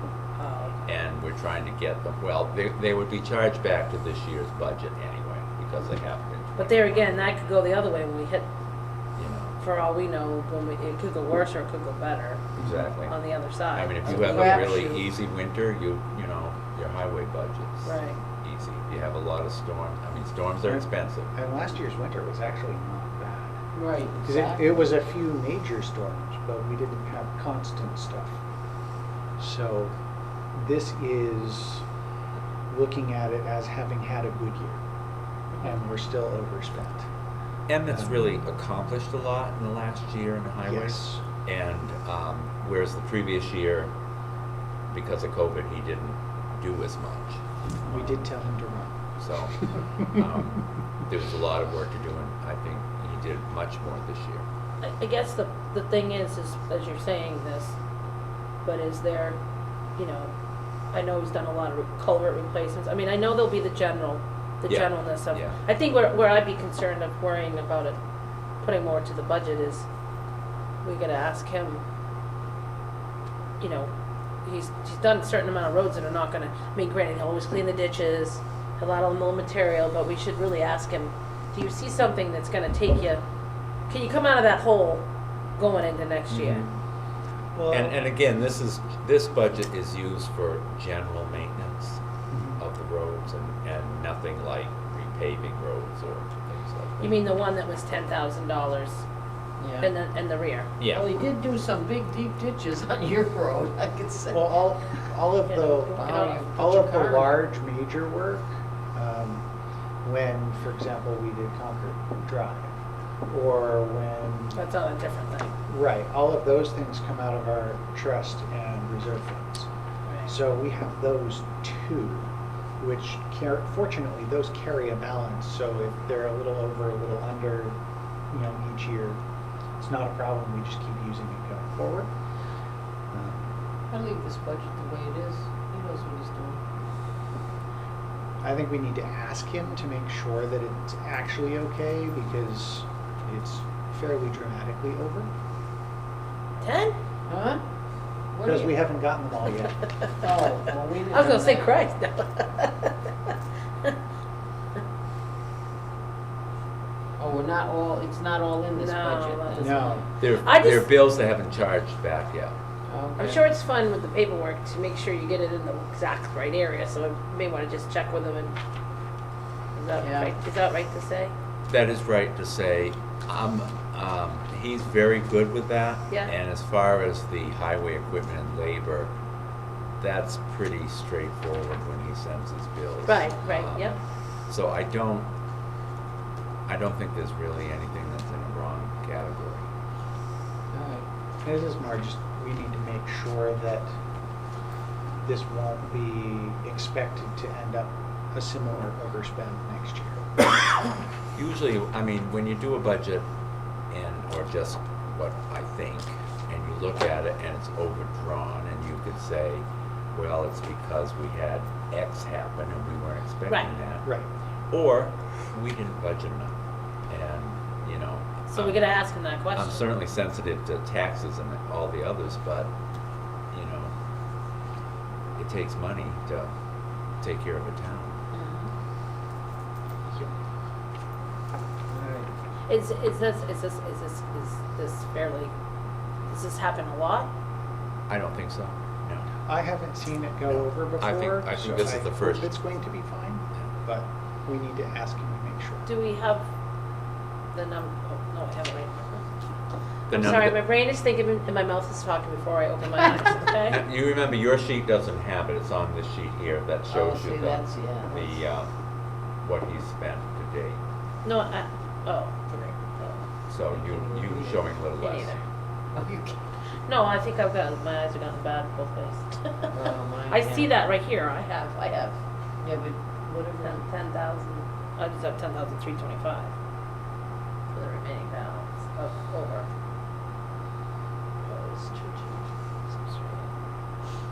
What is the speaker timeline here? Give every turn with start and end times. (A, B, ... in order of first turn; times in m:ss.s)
0:00.4-0:00.8 A
0:00.8-0:07.2 B
0:06.6-0:08.5 A
0:09.2-0:09.6 B
0:09.6-0:12.5 A
0:12.6-0:13.1 B
0:13.1-0:14.7 A
0:13.7-0:21.3 B
0:14.0-0:15.0 C
0:17.8-0:18.2 A
0:20.6-0:23.6 D
0:23.7-0:24.8 C
0:24.2-0:28.4 D
0:29.4-0:29.9 D
0:30.5-0:31.8 D
0:32.7-0:34.8 D
0:35.6-0:37.1 D
0:37.7-0:43.9 B
0:40.6-0:41.2 D
0:44.9-0:48.2 B
0:47.8-0:49.0 D
0:49.2-0:54.4 B
0:54.8-0:57.7 A
0:58.6-0:59.4 A
1:00.0-1:00.3 A
1:00.9-1:08.0 A
1:04.6-1:05.6 B
1:08.6-1:09.8 A
1:10.8-1:11.8 A
1:13.6-1:13.9 A
1:14.4-1:23.2 A
1:23.9-1:25.0 A
1:25.6-1:26.6 A
1:26.3-1:26.6 B
1:27.6-1:28.0 D
1:27.7-1:32.0 B
1:32.3-1:32.6 D
1:32.6-1:37.2 B
1:37.0-1:39.0 A
1:39.6-1:39.9 C
1:39.8-1:40.7 A
1:40.8-1:41.1 B
1:40.9-1:44.4 C
1:44.3-1:49.4 D
1:45.4-1:46.4 A
1:45.9-1:47.4 C
1:50.0-1:52.8 D
1:53.3-1:54.6 D
1:54.5-1:55.6 A
1:55.7-1:59.7 D
2:00.2-2:07.8 D
2:08.3-2:09.2 D
2:09.8-2:12.1 D
2:13.1-2:13.4 D
2:13.9-2:16.6 C
2:18.4-2:25.3 D
2:26.6-2:26.9 A
2:27.3-2:27.6 C
2:28.3-2:28.8 C
2:28.4-2:29.9 D
2:30.2-2:31.8 C
2:31.1-2:33.3 A
2:37.2-2:40.0 C
2:38.8-2:40.9 A
2:39.6-2:40.0 D
2:40.2-2:42.6 B
2:42.9-2:43.4 C
2:43.2-2:48.5 A
2:49.7-2:51.3 A
2:50.0-2:50.3 C
2:51.7-2:59.1 B
3:00.0-3:03.9 B
3:03.0-3:04.0 A
3:04.5-3:05.3 B
3:06.7-3:09.7 B
3:10.7-3:11.0 C
3:11.4-3:13.9 D
3:15.2-3:20.2 D
3:21.3-3:23.3 B
3:23.9-3:34.1 B
3:34.0-3:34.3 D
3:34.7-3:38.9 B
3:38.5-3:39.9 A
3:39.5-3:42.7 B
3:43.5-3:43.9 B
3:45.4-3:46.5 B
3:47.2-3:48.2 B
3:48.4-3:48.7 C
3:51.9-3:52.3 C
3:52.7-3:55.5 A
3:56.3-3:57.3 A
3:58.1-3:59.3 B
3:59.4-4:05.9 D
4:00.5-4:02.5 B
4:05.9-4:06.4 A
4:07.5-4:09.2 A
4:10.1-4:10.6 B
4:10.1-4:13.8 A
4:13.6-4:18.7 B
4:16.9-4:18.4 C
4:19.4-4:20.8 B
4:21.2-4:23.2 A
4:23.5-4:25.3 B
4:23.7-4:24.6 C
4:25.0-4:25.4 A
4:25.9-4:26.4 C
4:26.9-4:32.2 A
4:29.7-4:30.7 C
4:32.6-4:33.8 C
4:33.6-4:36.5 A
4:37.7-4:39.7 A
4:41.4-4:43.5 A